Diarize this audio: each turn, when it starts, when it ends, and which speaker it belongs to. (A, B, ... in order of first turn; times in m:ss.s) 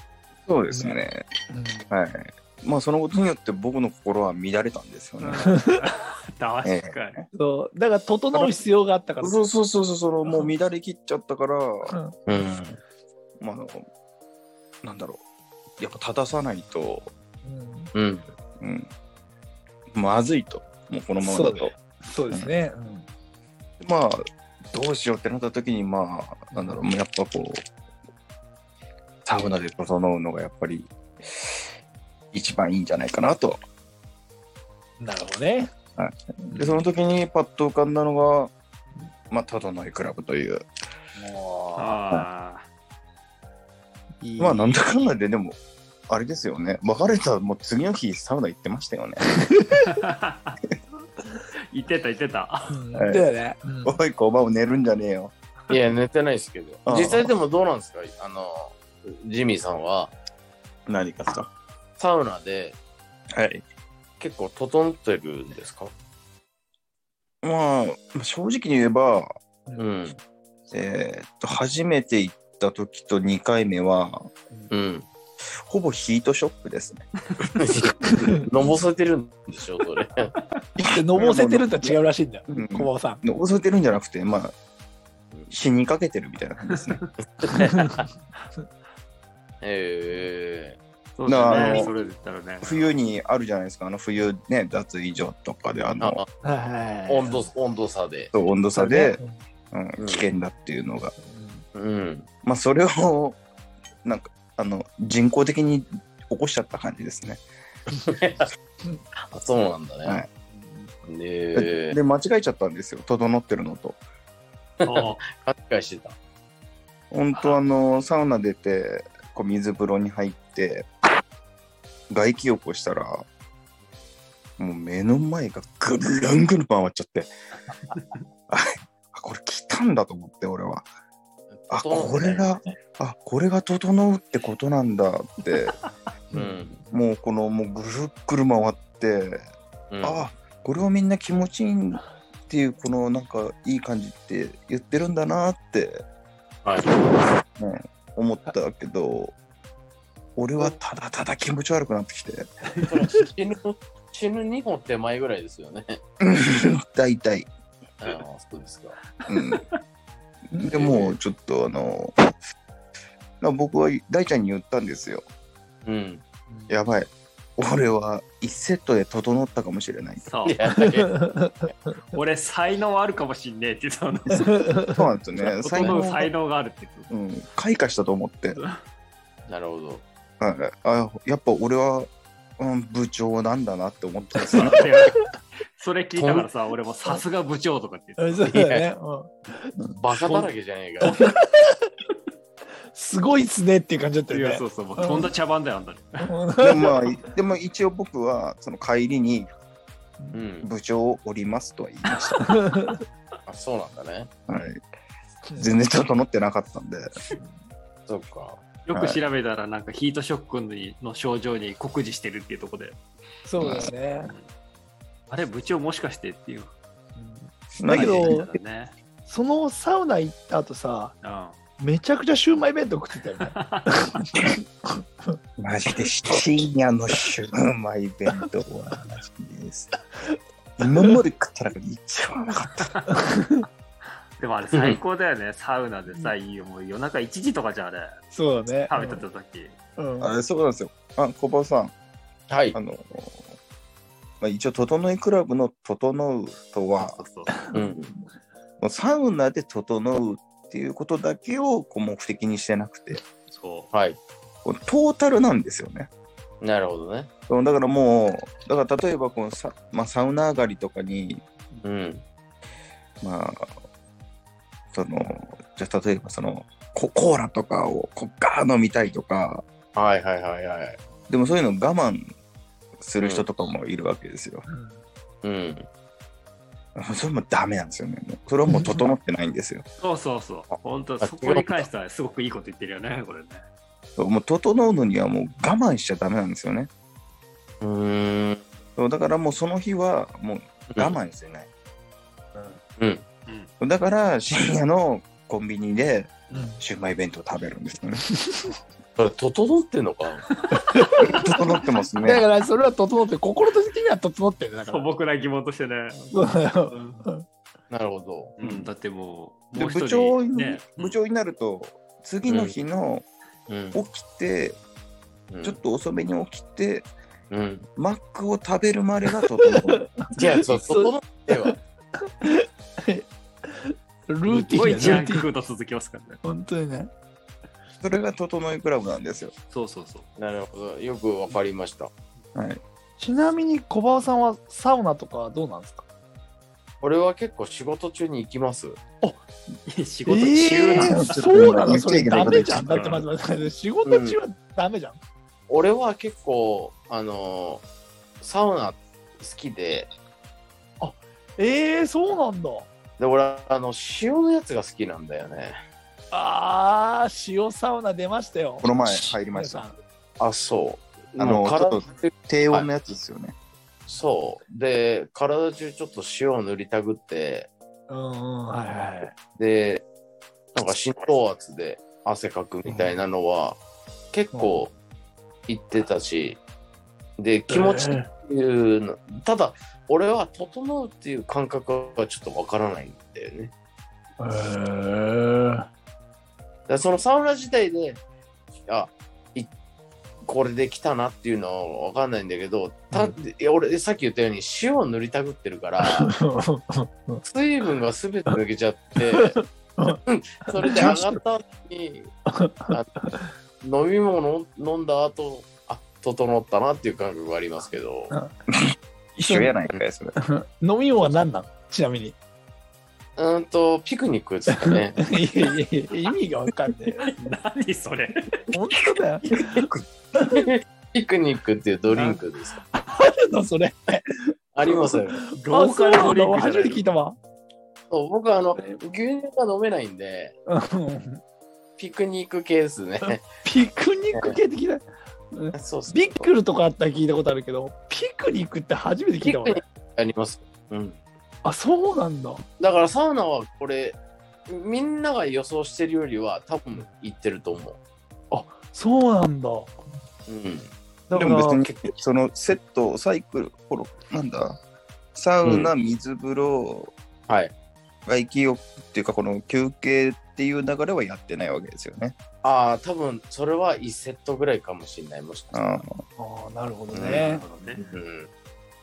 0:00.5-0:01.2 A
0:00.7-0:01.9 B
0:01.9-0:05.6 A
0:05.3-0:05.7 B
0:05.3-0:07.2 C
0:06.6-0:07.3 A
0:07.3-0:09.4 B
0:08.3-0:08.6 A
0:09.2-0:11.9 A
0:10.2-0:10.5 B
0:11.9-0:12.1 B
0:12.3-0:12.8 D
0:13.4-0:13.8 A
0:14.8-0:15.2 A
0:15.8-0:17.1 A
0:17.4-0:17.9 B
0:17.9-0:18.3 D
0:18.6-0:18.9 A
0:19.9-0:21.7 A
0:21.2-0:23.1 B
0:23.8-0:24.2 A
0:24.7-0:27.6 A
0:26.5-0:26.8 B
0:29.2-0:31.6 A
0:32.3-0:33.6 A
0:35.0-0:35.7 B
0:36.0-0:38.5 A
0:36.4-0:36.8 B
0:39.3-0:40.6 A
0:41.2-0:42.0 B
0:41.7-0:42.6 C
0:44.2-0:44.8 B
0:44.4-0:49.2 A
0:49.9-0:50.5 C
0:51.7-0:52.7 C
0:52.7-0:54.0 B
0:52.9-0:53.3 A
0:53.8-0:55.3 A
0:55.7-1:00.1 D
0:56.8-0:57.3 A
1:00.9-1:01.5 A
1:02.0-1:02.8 D
1:03.3-1:03.6 A
1:04.2-1:05.9 D
1:07.4-1:09.3 A
1:09.8-1:10.2 D
1:10.7-1:14.3 A
1:14.7-1:15.1 D
1:15.6-1:17.1 A
1:17.6-1:20.3 D
1:20.8-1:24.5 A
1:20.9-1:23.2 B
1:25.5-1:27.0 A
1:27.4-1:28.0 D
1:29.6-1:30.8 D
1:31.2-1:32.9 C
1:31.2-1:31.9 A
1:31.4-1:31.9 D
1:32.6-1:36.2 A
1:36.0-1:36.3 D
1:36.4-1:37.4 B
1:37.1-1:38.3 D
1:38.3-1:39.2 A
1:38.7-1:39.4 B
1:39.7-1:41.1 A
1:40.0-1:40.2 D
1:41.2-1:41.6 B
1:41.7-1:42.3 D
1:42.4-1:43.4 A
1:44.0-1:47.4 A
1:48.1-1:48.5 D
1:49.3-1:50.2 D
1:50.5-1:50.9 B
1:51.0-1:52.0 D
1:51.5-1:54.0 A
1:54.8-1:56.2 D
1:54.8-1:55.2 C
1:57.1-2:00.9 A
1:57.3-1:57.6 C
2:02.1-2:03.2 A
2:04.6-2:07.3 A
2:07.9-2:08.2 C
2:08.5-2:10.9 A
2:11.5-2:12.7 D
2:11.7-2:15.7 A
2:16.3-2:16.8 B
2:16.3-2:16.7 D
2:16.9-2:19.5 A
2:19.9-2:20.3 D
2:20.0-2:26.0 A
2:26.6-2:26.9 D
2:27.6-2:29.3 A
2:30.4-2:32.5 A
2:32.7-2:33.0 B
2:32.9-2:36.0 D
2:36.2-2:37.5 A
2:38.0-2:39.0 D
2:39.3-2:39.6 A
2:40.6-2:42.3 A
2:40.7-2:41.1 D
2:43.4-2:45.2 A
2:45.8-2:46.2 D
2:46.5-2:46.7 B
2:46.7-2:50.2 A
2:50.2-2:50.6 C
2:50.4-2:51.1 D
2:50.8-2:51.9 B
2:52.1-2:54.6 C
2:54.4-2:55.0 B
2:54.9-2:56.3 A
2:55.4-2:57.1 C
2:57.1-2:58.6 A
2:59.5-3:00.0 D
3:00.4-3:04.8 A
3:04.4-3:05.1 B
3:04.5-3:05.2 C
3:05.8-3:08.5 C
3:06.2-3:06.5 D
3:08.2-3:09.8 B
3:08.5-3:08.8 D
3:10.0-3:11.2 D
3:11.0-3:11.9 B
3:12.9-3:15.3 B
3:14.3-3:16.3 C
3:16.2-3:17.1 B
3:16.6-3:19.5 A
3:20.3-3:20.7 D
3:20.6-3:22.4 A
3:22.4-3:23.0 B
3:23.5-3:24.3 D
3:24.5-3:24.8 A
3:25.4-3:25.7 B
3:25.6-3:27.1 A
3:28.1-3:28.6 D
3:28.8-3:33.0 C
3:28.9-3:29.2 A
3:33.4-3:34.3 B
3:33.6-3:33.9 A
3:34.2-3:34.4 C
3:35.3-3:36.7 C
3:37.2-3:38.5 B
3:37.8-3:38.5 A
3:37.9-3:38.9 C
3:39.2-3:41.2 B
3:41.2-3:41.6 C
3:41.8-3:44.6 B
3:43.5-3:44.0 C
3:45.6-3:49.9 A
3:50.8-3:52.9 A
3:53.1-3:53.6 B
3:54.4-3:58.1 C
3:54.7-3:55.0 D
3:58.3-3:59.2 B
3:58.9-3:59.8 C
4:00.0-4:00.3 B
4:00.2-4:01.9 A
4:02.5-4:02.8 D
4:02.7-4:03.4 A
4:04.4-4:07.2 A
4:07.0-4:07.6 C
4:07.7-4:08.1 D
4:08.8-4:13.2 A
4:13.5-4:13.9 C
4:13.9-4:14.2 D
4:14.6-4:16.1 A
4:16.6-4:17.3 D
4:17.5-4:21.4 A
4:21.8-4:22.2 D
4:23.2-4:23.7 A
4:24.9-4:29.6 A
4:29.9-4:31.0 D
4:31.3-4:32.3 A
4:33.0-4:34.7 A
4:33.2-4:33.4 D
4:34.7-4:35.0 B
4:35.4-4:35.9 D
4:37.0-4:39.8 A
4:38.7-4:39.0 B
4:40.0-4:43.6 C
4:41.2-4:41.7 D
4:44.2-4:46.9 A
4:47.8-4:48.6 D
4:49.0-4:51.7 A
4:53.0-4:53.2 D
4:53.8-4:58.2 A
4:56.5-4:56.8 B
4:58.3-4:58.7 B
4:59.2-5:00.4 D
5:00.7-5:01.4 B
5:01.2-5:02.5 A
5:02.2-5:05.1 B
5:04.9-5:07.2 C
5:06.3-5:07.4 B
5:07.9-5:08.9 D
5:08.6-5:11.2 C
5:09.8-5:13.2 A
5:12.4-5:12.8 D
5:13.7-5:14.0 D
5:13.9-5:14.8 A
5:15.5-5:15.8 D
5:15.6-5:17.1 A
5:17.5-5:17.9 D
5:18.0-5:20.1 A
5:19.7-5:20.0 B
5:20.4-5:21.7 D
5:20.7-5:21.8 B
5:22.4-5:25.5 B
5:24.4-5:26.4 C
5:26.4-5:27.1 B
5:28.0-5:29.5 A
5:29.7-5:30.3 C
5:30.4-5:32.1 D
5:32.5-5:32.8 A
5:33.2-5:36.0 B
5:37.0-5:39.0 D
5:39.9-5:43.2 C
5:40.2-5:45.2 B
5:40.6-5:43.2 A
5:44.0-5:44.4 D
5:45.7-5:47.8 D
5:48.4-5:50.1 D
5:51.0-5:52.9 B
5:53.2-5:55.8 D
5:56.3-6:00.0 B
5:58.8-5:59.8 A
6:00.4-6:02.9 D
6:01.4-6:03.5 A
6:04.1-6:07.7 D
6:08.1-6:09.3 B
6:09.5-6:10.0 D
6:10.7-6:13.8 D
6:14.3-6:14.9 D
6:14.5-6:14.8 B
6:15.7-6:16.6 D
6:17.4-6:23.7 D
6:17.7-6:18.3 B
6:24.4-6:25.9 B
6:26.9-6:28.2 D
6:28.9-6:29.7 D
6:30.4-6:36.3 D
6:36.1-6:37.4 B
6:37.4-6:39.6 D
6:39.3-6:40.2 B
6:40.2-6:42.3 D
6:40.7-6:41.3 B
6:42.5-6:43.5 B
6:43.8-6:48.3 D
6:48.7-6:50.3 A
6:49.4-6:49.7 B
6:50.4-6:52.3 B
6:53.4-6:55.2 D
6:54.8-6:57.3 B
6:57.2-6:58.6 C
6:58.7-7:00.7 B
6:59.4-7:00.0 D
7:00.5-7:02.8 D
7:02.9-7:07.4 B
7:04.7-7:05.4 D
7:05.5-7:07.0 C
7:08.1-7:10.6 D
7:10.7-7:11.4 B
7:12.0-7:13.4 D
7:13.2-7:19.8 B
7:15.7-7:16.5 D
7:19.4-7:21.2 D
7:21.6-7:22.6 B
7:22.8-7:28.0 D
7:28.5-7:29.9 B
7:30.5-7:30.9 D
7:31.3-7:32.1 B
7:31.3-7:34.8 A
7:35.3-7:37.1 A
7:35.6-7:35.9 D
7:38.3-7:42.3 A
7:42.6-7:46.0 D
7:45.7-7:46.2 A
7:46.4-7:47.6 B
7:47.1-7:48.5 D
7:47.3-7:48.0 C